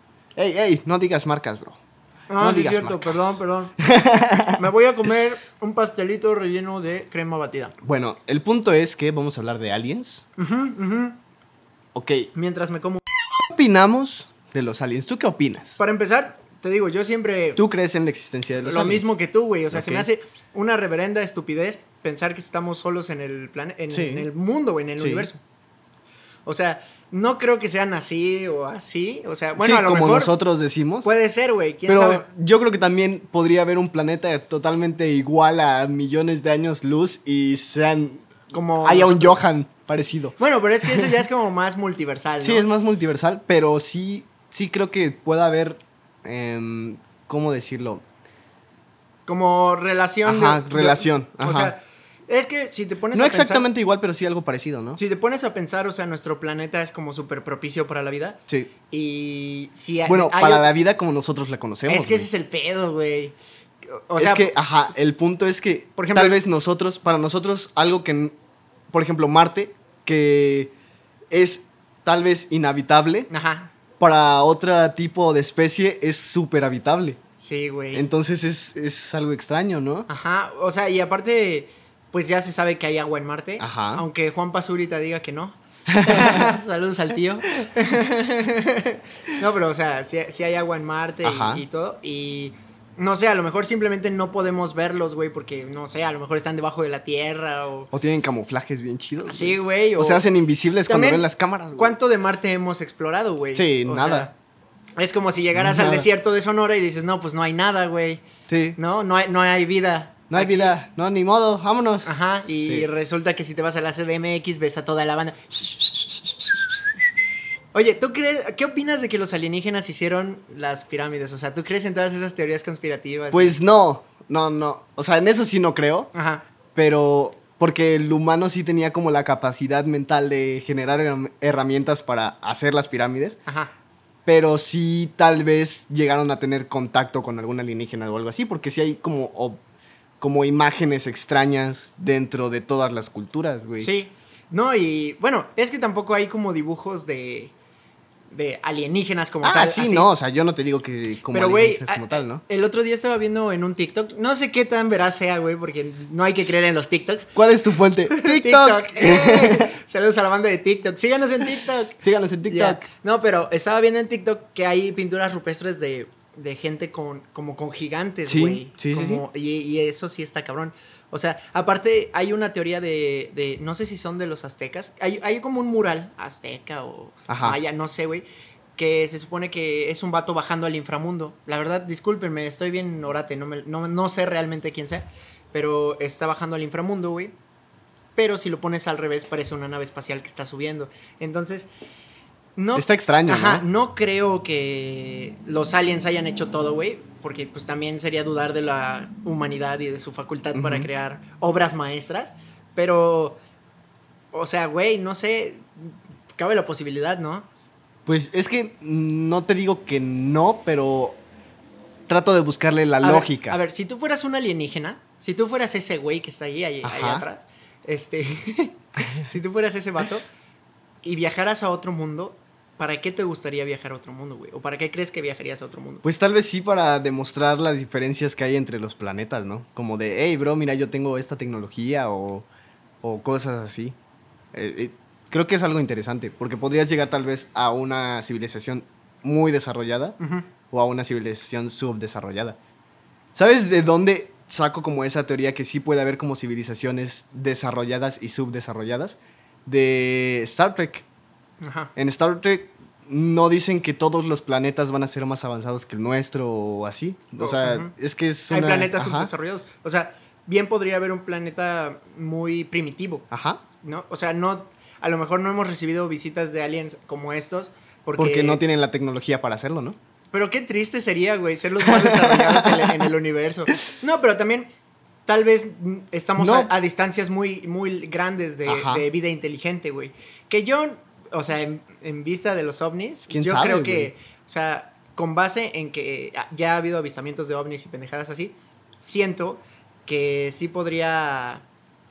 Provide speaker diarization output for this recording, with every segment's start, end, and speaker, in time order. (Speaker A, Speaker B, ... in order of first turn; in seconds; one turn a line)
Speaker A: 0.4-1.8
Speaker B: 2.3-3.8
Speaker A: 2.4-4.6
Speaker B: 4.5-7.8
Speaker A: 7.8-10.2
Speaker B: 10.4-11.2
Speaker A: 11.9-12.3
Speaker B: 12.3-13.0
Speaker A: 13.5-15.8
Speaker B: 15.8-17.6
Speaker A: 17.6-19.1
Speaker B: 18.6-25.4
Speaker A: 19.7-20.1
Speaker A: 23.9-24.3
Speaker A: 25.0-25.3
Speaker B: 26.5-30.3
Speaker A: 29.6-31.1
Speaker B: 31.0-32.2
Speaker A: 31.9-41.2
Speaker B: 38.5-39.4
Speaker B: 40.4-42.7
Speaker A: 42.4-48.0
Speaker B: 49.3-53.7
Speaker A: 50.2-51.7
Speaker A: 53.1-55.0
Speaker B: 55.0-60.7
Speaker A: 60.1-62.3
Speaker B: 61.9-63.4
Speaker B: 63.9-64.5
Speaker A: 64.2-68.3
Speaker B: 66.0-66.4
Speaker A: 68.9-70.7
Speaker A: 71.3-73.3
Speaker B: 73.3-73.7
Speaker A: 74.0-77.2
Speaker B: 77.4-78.1
Speaker A: 77.9-80.1
Speaker B: 80.1-97.9
Speaker A: 83.6-84.0
Speaker A: 85.9-86.5
Speaker A: 91.2-91.7
Speaker A: 97.9-102.0
Speaker B: 99.2-100.2
Speaker B: 100.9-104.3
Speaker A: 103.5-104.3
Speaker B: 105.0-108.2
Speaker A: 105.5-106.1
Speaker A: 108.5-108.8
Speaker B: 108.8-110.8
Speaker A: 110.3-112.1
Speaker B: 112.0-116.7
Speaker B: 117.7-123.6
Speaker A: 123.3-126.1
Speaker B: 126.1-126.4
Speaker A: 126.8-133.4
Speaker A: 134.3-139.6
Speaker A: 140.2-143.9
Speaker B: 143.8-147.5
Speaker B: 148.3-150.1
Speaker A: 149.4-152.4
Speaker B: 151.3-157.3
Speaker A: 157.3-159.7
Speaker B: 158.1-178.3
Speaker A: 162.0-162.9
Speaker A: 168.3-169.2
Speaker A: 177.3-177.6
Speaker B: 178.8-187.3
Speaker B: 188.2-191.7
Speaker B: 192.6-203.4
Speaker A: 192.8-193.7
Speaker A: 200.5-200.9
Speaker B: 204.3-207.5
Speaker A: 208.1-211.2
Speaker A: 212.1-213.6
Speaker B: 213.0-220.3
Speaker A: 216.8-217.2
Speaker B: 221.0-226.0
Speaker A: 226.0-232.5
Speaker A: 233.0-234.0
Speaker A: 234.5-240.2
Speaker B: 240.2-240.5
Speaker A: 240.7-242.6
Speaker A: 243.3-251.1
Speaker B: 251.6-251.9
Speaker A: 252.0-259.3
Speaker B: 257.4-257.9
Speaker B: 258.5-263.3
Speaker A: 263.3-263.6
Speaker B: 263.8-268.6
Speaker A: 268.2-270.0
Speaker B: 270.3-274.7
Speaker A: 271.8-273.1
Speaker B: 275.3-291.6
Speaker A: 276.4-276.7
Speaker A: 278.7-279.1
Speaker A: 283.3-284.1